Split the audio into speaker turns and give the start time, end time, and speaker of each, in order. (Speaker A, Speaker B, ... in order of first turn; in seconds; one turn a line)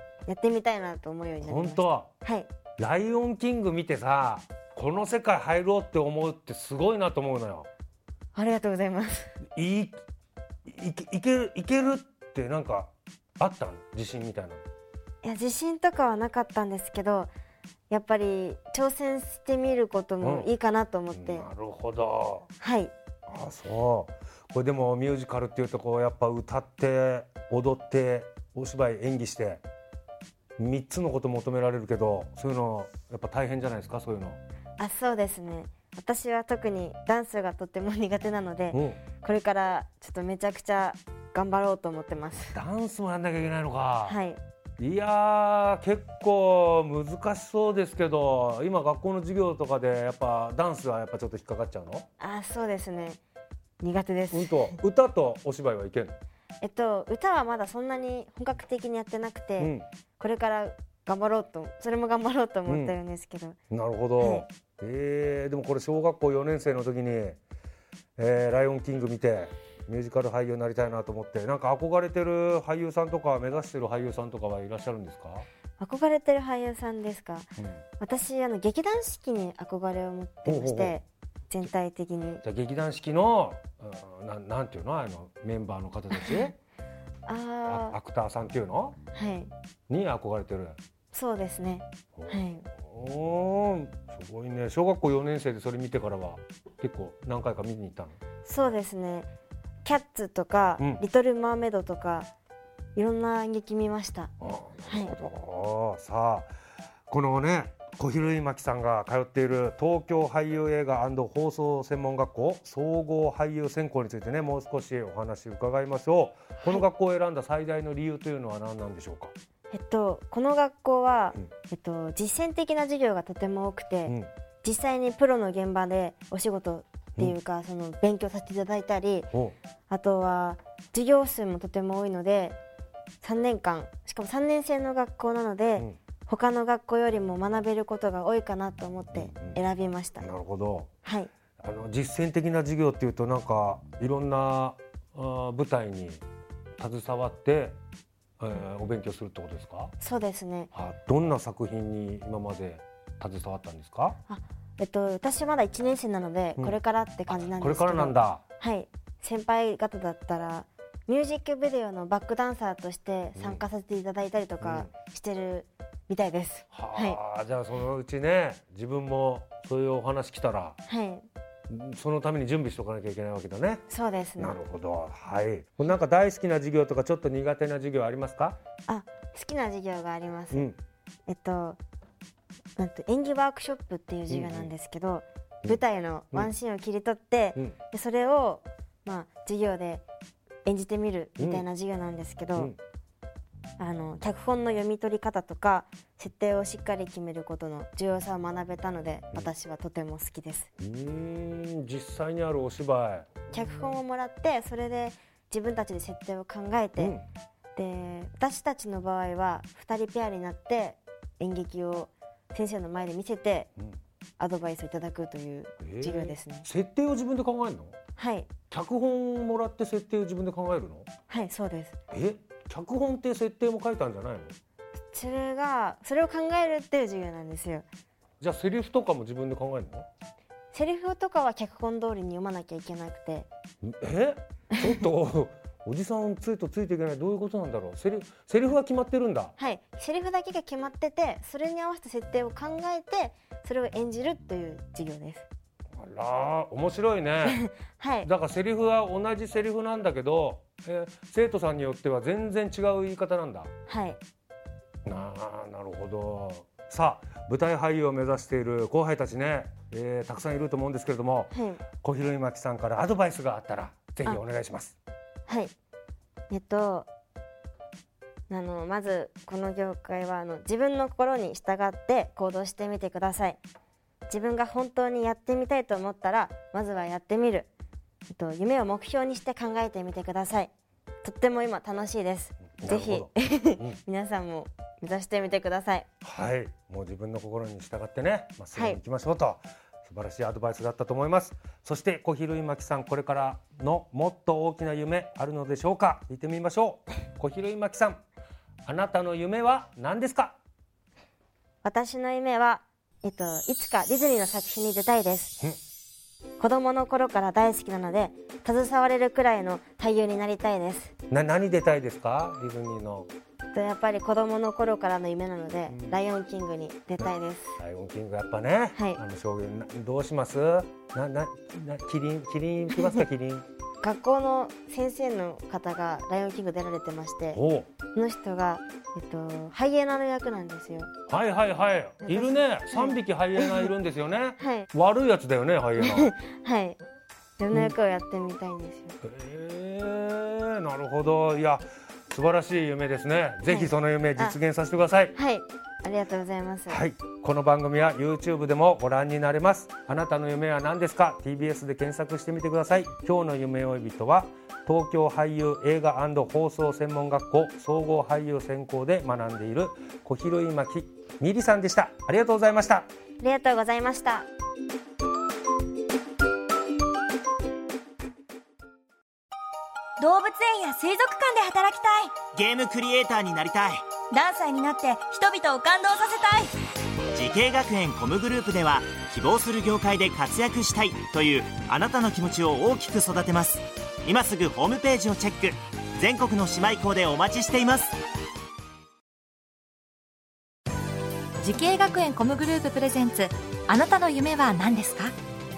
Speaker A: 0.2-2.5
Speaker B: 1.4-2.1
Speaker B: 2.8-7.7
Speaker A: 8.3-9.3
Speaker B: 9.6-9.9
Speaker B: 10.7-14.6
Speaker A: 15.2-17.3
Speaker A: 17.9-21.5
Speaker B: 20.2-20.5
Speaker B: 21.1-22.5
Speaker A: 22.6-22.9
Speaker B: 23.3-29.6
Speaker B: 30.6-34.4
Speaker A: 34.8-42.5
Speaker B: 38.7-39.0
Speaker B: 42.5-44.2
Speaker A: 44.0-44.4
Speaker B: 44.8-52.0
Speaker A: 52.2-53.2
Speaker A: 53.8-54.7
Speaker B: 54.3-56.1
Speaker A: 56.6-63.6
Speaker B: 59.6-59.9
Speaker B: 62.7-63.0
Speaker B: 63.7-67.4
Speaker A: 64.2-64.5
Speaker B: 68.2-75.5
Speaker A: 75.8-77.5
Speaker A: 78.0-82.4
Speaker B: 80.5-81.0
Speaker B: 82.4-86.5
Speaker A: 86.1-86.5
Speaker A: 87.2-88.0
Speaker B: 87.7-89.0
Speaker A: 89.1-89.5
Speaker B: 89.9-90.8
Speaker A: 91.1-92.7
Speaker B: 92.2-98.1
Speaker A: 98.4-99.3
Speaker A: 99.8-102.3
Speaker A: 102.9-104.3
Speaker B: 104.4-106.5
Speaker A: 104.9-105.1
Speaker B: 107.1-119.3
Speaker A: 119.7-129.3
Speaker A: 129.9-132.6
Speaker A: 133.2-140.3
Speaker B: 139.1-139.6
Speaker B: 140.2-140.9
Speaker A: 141.0-141.3
Speaker B: 141.6-146.2
Speaker B: 146.8-147.8
Speaker B: 148.4-149.9
Speaker A: 150.0-150.7
Speaker B: 150.7-154.2
Speaker A: 154.3-167.2
Speaker B: 157.3-158.4
Speaker B: 163.4-163.6
Speaker B: 164.6-164.9
Speaker B: 166.7-170.8
Speaker A: 170.9-171.2
Speaker B: 171.7-173.8
Speaker A: 173.9-174.6
Speaker B: 174.4-178.6
Speaker A: 178.9-180.7
Speaker B: 180.5-180.8
Speaker A: 181.3-181.8
Speaker A: 182.8-190.0
Speaker B: 184.3-184.7
Speaker A: 190.6-192.7
Speaker B: 191.4-191.6
Speaker A: 193.8-200.7
Speaker B: 200.8-203.3
Speaker A: 203.5-207.2
Speaker B: 207.0-207.2
Speaker A: 207.7-213.7
Speaker A: 214.4-216.7
Speaker B: 215.8-217.9
Speaker A: 218.2-218.5
Speaker B: 218.7-221.1
Speaker A: 221.3-222.0
Speaker B: 222.1-224.5
Speaker A: 225.1-227.8
Speaker B: 228.4-230.1
Speaker A: 230.7-233.5
Speaker B: 233.8-239.5
Speaker A: 239.6-245.4
Speaker B: 246.0-247.6
Speaker A: 247.4-248.3
Speaker B: 248.2-253.7
Speaker A: 253.9-254.2
Speaker B: 255.0-264.9
Speaker A: 261.5-261.8
Speaker A: 265.5-265.7
Speaker A: 266.5-267.1
Speaker A: 268.5-273.6
Speaker A: 274.3-277.7
Speaker A: 278.3-280.7
Speaker A: 281.2-286.1
Speaker B: 282.8-284.0
Speaker B: 286.2-298.2
Speaker A: 288.7-289.0
Speaker B: 298.9-300.6
Speaker A: 301.8-305.6
Speaker A: 306.6-311.1
Speaker B: 311.3-313.3
Speaker A: 313.7-317.8
Speaker B: 315.9-316.2
Speaker B: 317.2-323.6
Speaker A: 324.0-327.6
Speaker B: 327.5-327.9
Speaker A: 328.1-331.1
Speaker B: 331.3-336.3
Speaker A: 332.2-333.9
Speaker A: 334.6-334.9
Speaker A: 336.0-337.0
Speaker A: 337.6-339.2
Speaker B: 339.2-345.3
Speaker A: 343.7-344.6
Speaker A: 345.3-347.0
Speaker B: 346.9-363.1
Speaker A: 363.4-364.5
Speaker C: 370.2-372.4
Speaker D: 372.5-374.0
Speaker C: 374.3-376.7
Speaker D: 377.3-388.2
Speaker E: 391.6-395.3